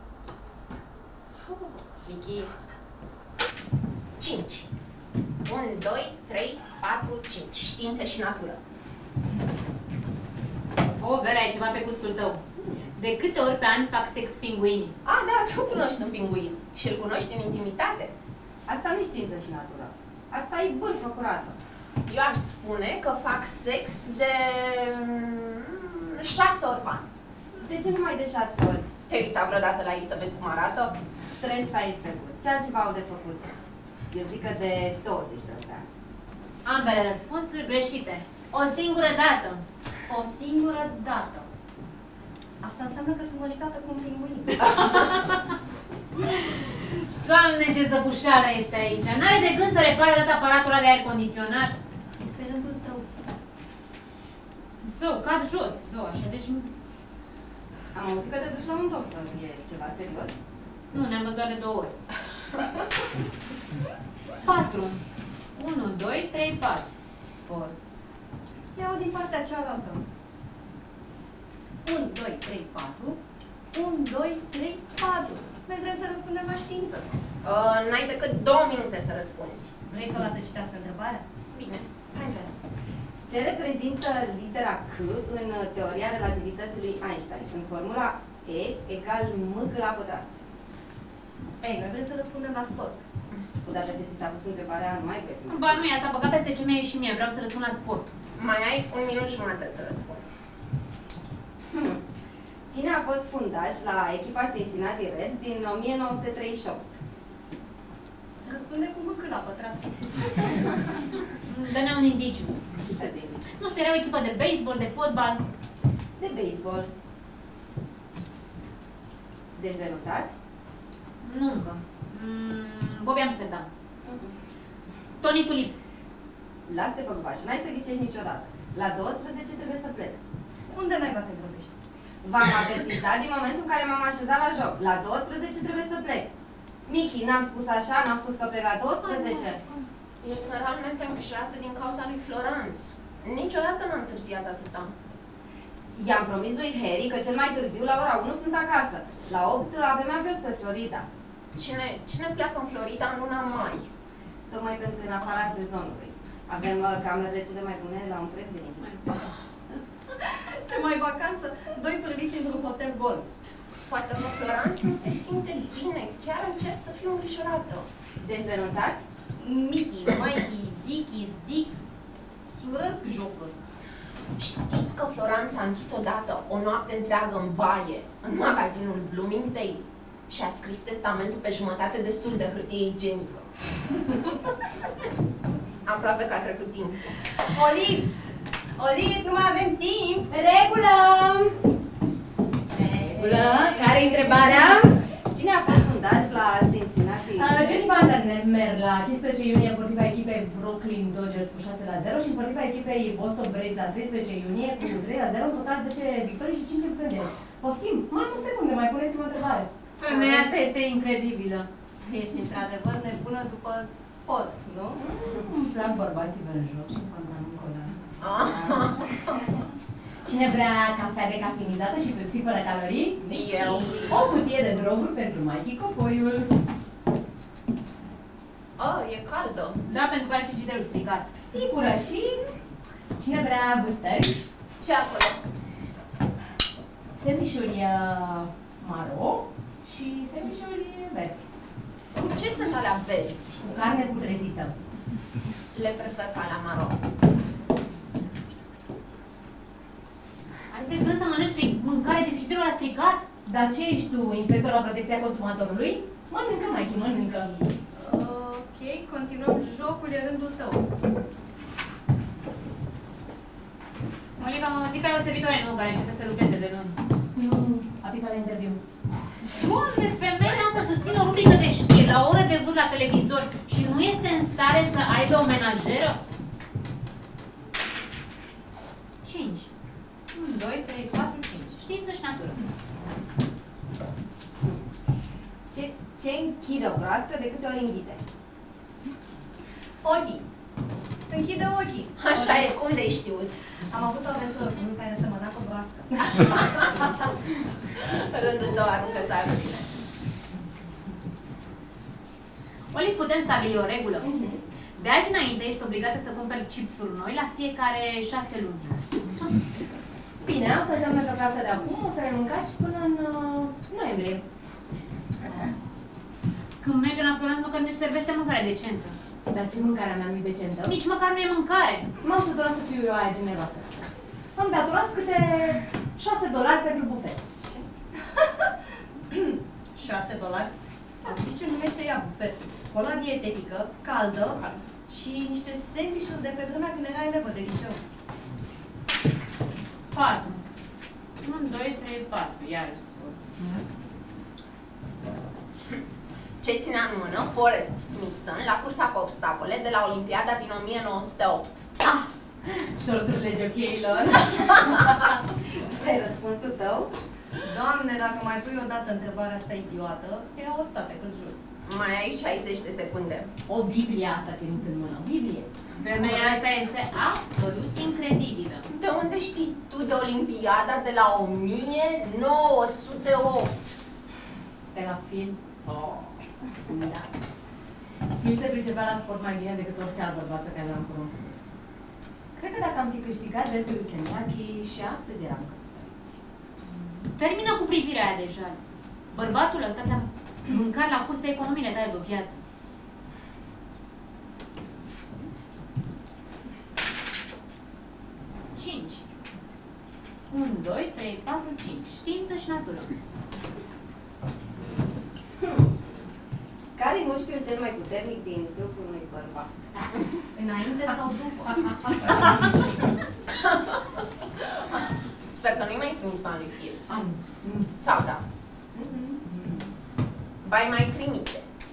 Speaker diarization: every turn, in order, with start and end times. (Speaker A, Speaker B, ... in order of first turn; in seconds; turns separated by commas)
Speaker A: 2.0-2.5, Speaker B: 4.2-4.7, Speaker B: 5.5-8.6, Speaker A: 11.0-12.4, Speaker A: 13.0-14.9, Speaker B: 15.0-18.1, Speaker C: 18.7-21.6, Speaker B: 22.1-27.1, Speaker C: 27.6-28.9, Speaker B: 29.1-31.0, Speaker C: 31.4-33.5, Speaker C: 34.1-35.9, Speaker A: 36.6-39.6, Speaker D: 40.1-41.5, Speaker D: 42.6-44.8, Speaker A: 44.9-45.5, Speaker A: 46.3-51.8, Speaker D: 52.2-53.1, Speaker A: 54.8-56.7, Speaker C: 57.9-60.4, Speaker A: 60.9-61.9, Speaker A: 64.4-65.0, Speaker A: 65.6-67.7, Speaker D: 68.8-70.0, Speaker D: 71.8-73.2, Speaker D: 73.7-77.2, Speaker B: 77.4-79.8, Speaker D: 79.9-81.2, Speaker B: 81.5-81.8, Speaker D: 82.1-82.5, Speaker C: 83.3-90.3, Speaker D: 91.6-93.0, Speaker C: 93.6-95.9, Speaker A: 95.5-98.1, Speaker B: 98.4-100.4, Speaker C: 101.7-102.0, Speaker C: 102.7-106.9, Speaker D: 108.4-110.8, Speaker A: 111.5-112.6, Speaker C: 112.8-113.5, Speaker A: 113.5-115.4, Speaker C: 116.2-116.9, Speaker C: 119.5-120.3, Speaker A: 121.2-123.7, Speaker C: 124.1-124.3, Speaker A: 125.2-125.8, Speaker C: 126.7-130.2, Speaker D: 130.7-131.8, Speaker C: 132.2-136.3, Speaker C: 136.9-139.6, Speaker A: 139.1-139.6, Speaker B: 140.2-144.9, Speaker C: 145.9-151.1, Speaker B: 151.5-153.9, Speaker C: 154.5-159.2, Speaker D: 160.2-163.3, Speaker B: 163.9-167.9, Speaker C: 168.2-169.0, Speaker D: 169.4-171.9, Speaker D: 172.5-173.6, Speaker B: 174.4-183.5, Speaker B: 185.8-187.2, Speaker D: 187.5-188.1, Speaker D: 188.8-190.3, Speaker E: 190.3-191.6, Speaker C: 192.8-193.8, Speaker D: 192.8-194.3, Speaker E: 193.2-195.0, Speaker C: 194.4-194.7, Speaker C: 195.3-197.9, Speaker E: 197.4-210.5, Speaker A: 210.0-211.7, Speaker D: 212.0-215.0, Speaker E: 215.0-218.0, Speaker B: 218.2-219.4, Speaker E: 220.3-223.2, Speaker B: 223.2-224.1, Speaker C: 223.6-224.0, Speaker E: 224.1-226.5, Speaker B: 228.8-229.8, Speaker A: 229.9-231.4, Speaker E: 231.5-232.5, Speaker E: 233.2-234.5, Speaker B: 234.8-235.4, Speaker E: 237.2-241.5, Speaker B: 242.1-243.6, Speaker E: 243.6-244.8, Speaker B: 245.7-247.0, Speaker A: 250.7-253.2, Speaker E: 253.5-257.7, Speaker D: 257.9-260.9, Speaker A: 264.4-267.0, Speaker E: 267.4-268.8, Speaker A: 269.5-276.2, Speaker A: 279.2-279.7, Speaker A: 280.3-282.6, Speaker C: 285.7-288.2, Speaker D: 290.0-290.4, Speaker D: 291.3-292.7, Speaker B: 292.2-293.5, Speaker D: 293.9-296.5, Speaker B: 296.4-296.9, Speaker B: 298.0-299.9, Speaker A: 302.9-309.7, Speaker E: 304.2-304.6, Speaker E: 310.4-314.4, Speaker A: 316.8-319.2, Speaker E: 319.5-321.0, Speaker A: 320.9-322.1, Speaker E: 322.2-327.4, Speaker D: 329.3-330.7, Speaker D: 331.2-338.1, Speaker A: 340.1-340.6, Speaker A: 341.4-343.4, Speaker B: 346.6-351.7, Speaker E: 352.0-355.2, Speaker C: 355.6-357.1, Speaker D: 357.6-361.6, Speaker B: 361.9-363.5, Speaker E: 363.7-366.6, Speaker A: 366.0-368.9, Speaker B: 368.9-374.0, Speaker E: 374.9-375.6, Speaker B: 375.9-376.3, Speaker E: 376.9-377.3, Speaker E: 378.4-381.6, Speaker E: 382.6-386.4, Speaker A: 387.0-388.8, Speaker A: 389.3-392.6, Speaker A: 398.7-399.2, Speaker A: 400.5-403.1, Speaker C: 405.6-405.9, Speaker C: 406.9-409.8, Speaker D: 410.6-411.6, Speaker E: 411.7-412.7, Speaker B: 413.6-414.0, Speaker B: 415.4-417.0, Speaker E: 417.1-417.9, Speaker B: 417.9-418.4, Speaker E: 418.9-419.6, Speaker B: 420.6-421.6